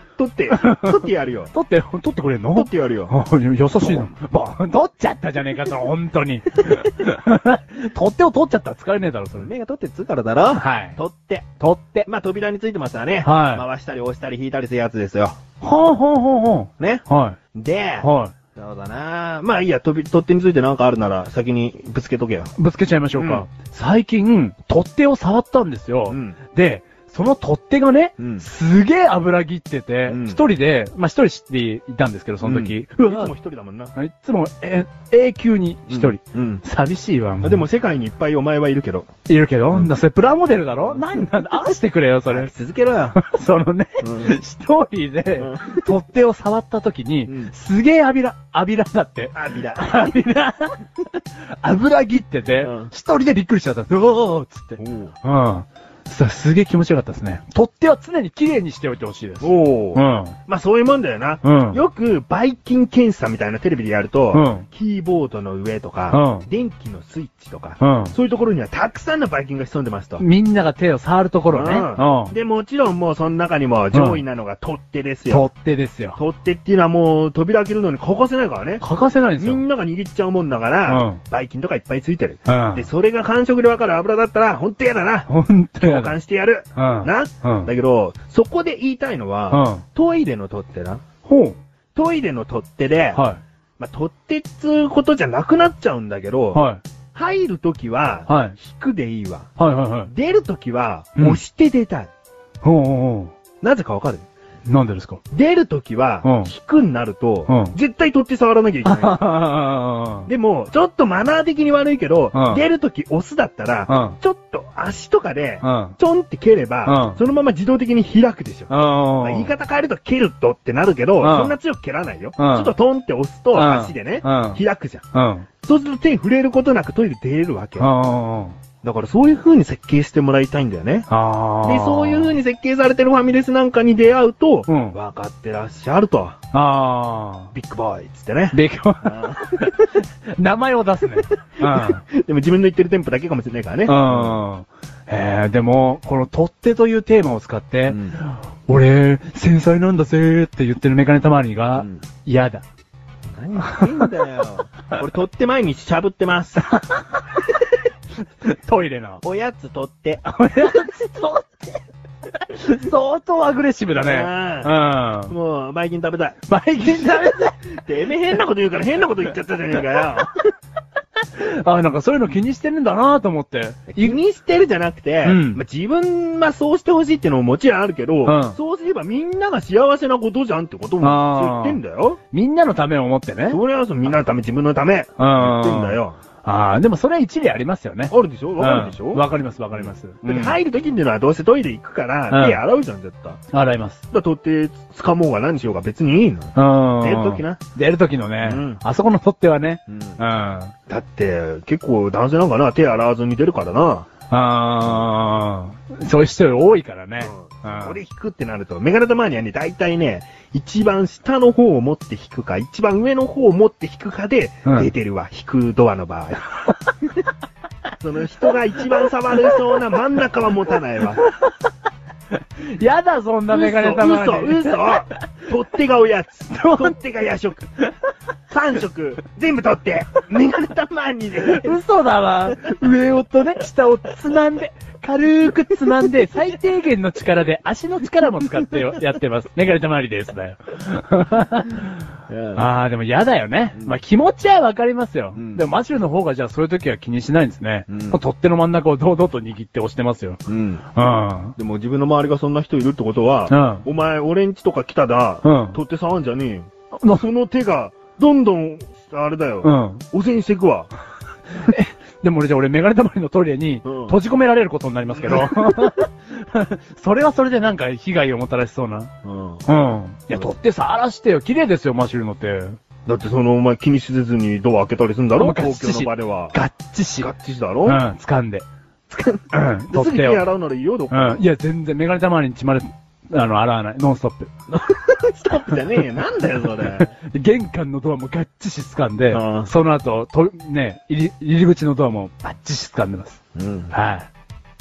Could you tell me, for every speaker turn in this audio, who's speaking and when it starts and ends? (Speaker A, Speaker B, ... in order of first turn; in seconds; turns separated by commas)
Speaker A: 0.2-1.5, Speaker B: 0.5-1.0, Speaker B: 1.5-9.5, Speaker A: 2.5-3.1, Speaker A: 9.3-11.5, Speaker B: 10.5-11.0, Speaker B: 11.6-12.1, Speaker A: 12.1-15.4, Speaker B: 13.2-13.7, Speaker B: 15.6-17.4, Speaker A: 17.5-22.5, Speaker B: 18.0-18.3, Speaker B: 22.6-33.3, Speaker A: 23.2-23.4, Speaker A: 26.1-26.4, Speaker A: 28.2-28.4, Speaker A: 30.1-30.4, Speaker A: 32.4-33.9, Speaker B: 34.0-37.6, Speaker A: 35.9-36.6, Speaker A: 37.4-39.1, Speaker B: 39.3-42.5, Speaker A: 40.8-41.1, Speaker A: 42.3-43.2, Speaker B: 43.1-50.8, Speaker A: 44.0-44.4, Speaker A: 45.4-45.9, Speaker A: 47.3-47.5, Speaker A: 49.3-50.2, Speaker B: 51.6-60.4, Speaker A: 52.6-52.9, Speaker A: 54.8-55.1, Speaker A: 59.4-70.2, Speaker B: 61.4-61.8, Speaker B: 64.3-64.7, Speaker B: 66.1-66.5, Speaker B: 67.8-68.1, Speaker B: 70.2-72.3, Speaker A: 71.5-75.5, Speaker B: 73.9-74.2, Speaker B: 75.3-76.2, Speaker A: 76.2-78.8, Speaker B: 78.8-79.6, Speaker A: 79.4-85.3, Speaker B: 80.9-81.2, Speaker B: 82.5-82.9, Speaker B: 85.3-86.1, Speaker A: 85.8-91.0, Speaker B: 86.8-87.7, Speaker B: 89.5-89.8, Speaker B: 91.2-91.6, Speaker A: 92.0-93.2, Speaker B: 93.2-93.4, Speaker A: 93.8-96.6, Speaker B: 96.5-96.8, Speaker A: 97.1-99.5, Speaker B: 98.3-98.6, Speaker B: 99.6-100.1, Speaker A: 100.1-102.1, Speaker B: 102.6-103.3, Speaker A: 103.6-104.3, Speaker B: 104.7-105.2, Speaker A: 105.3-109.2, Speaker B: 106.2-106.5, Speaker B: 107.5-107.8, Speaker B: 108.8-110.3, Speaker A: 110.3-125.0, Speaker B: 112.3-112.7, Speaker B: 113.9-114.2, Speaker B: 115.6-116.0, Speaker B: 116.8-117.2, Speaker B: 118.7-119.5, Speaker B: 121.2-121.6, Speaker B: 122.4-122.7, Speaker B: 123.5-124.6, Speaker B: 125.1-125.5, Speaker A: 125.6-127.9, Speaker B: 127.8-128.6, Speaker A: 128.8-131.1, Speaker B: 131.1-132.4, Speaker A: 131.6-136.4, Speaker B: 134.7-135.0, Speaker B: 136.5-137.5, Speaker A: 137.5-139.9, Speaker B: 138.5-142.0, Speaker A: 141.6-144.4, Speaker B: 143.9-152.7, Speaker A: 147.9-148.2, Speaker A: 153.3-156.7, Speaker B: 153.6-154.1, Speaker B: 156.8-157.2, Speaker B: 158.4-159.2, Speaker A: 159.2-160.2, Speaker B: 160.2-161.7, Speaker B: 162.4-165.3, Speaker A: 164.0-164.7, Speaker A: 165.3-166.4, Speaker B: 166.5-167.6, Speaker A: 167.8-170.3, Speaker B: 171.4-174.2, Speaker A: 173.9-182.2, Speaker B: 175.2-175.6, Speaker B: 178.2-178.6, Speaker B: 181.0-181.8, Speaker B: 182.3-183.6, Speaker A: 183.5-186.2, Speaker B: 185.2-190.6, Speaker A: 188.1-193.4, Speaker B: 192.3-192.6, Speaker B: 193.5-194.0, Speaker A: 194.1-197.6, Speaker B: 196.6-200.7, Speaker A: 198.4-198.8, Speaker A: 199.9-200.2, Speaker A: 200.9-204.1, Speaker B: 204.3-208.0, Speaker A: 207.2-216.5, Speaker A: 218.0-221.2, Speaker B: 222.6-225.1, Speaker A: 223.5-227.7, Speaker B: 226.5-226.9, Speaker A: 228.5-231.8, Speaker B: 231.5-242.0, Speaker A: 242.3-242.7, Speaker B: 242.6-250.4, Speaker A: 245.4-245.7, Speaker A: 247.9-248.2, Speaker A: 250.5-250.9, Speaker B: 250.9-251.6, Speaker A: 251.6-260.9, Speaker B: 253.5-253.8, Speaker B: 255.4-255.8, Speaker B: 259.6-260.0, Speaker B: 261.6-269.1, Speaker A: 263.9-264.2, Speaker A: 265.1-265.9, Speaker A: 269.2-269.7, Speaker B: 269.7-272.8, Speaker A: 273.1-276.6, Speaker B: 275.4-277.3, Speaker A: 277.2-278.0, Speaker B: 277.9-278.6, Speaker A: 279.1-281.5, Speaker B: 279.5-280.4, Speaker B: 281.1-284.5, Speaker A: 284.7-287.1, Speaker B: 286.8-293.4, Speaker A: 289.3-289.7, Speaker A: 293.6-293.9, Speaker B: 293.9-294.3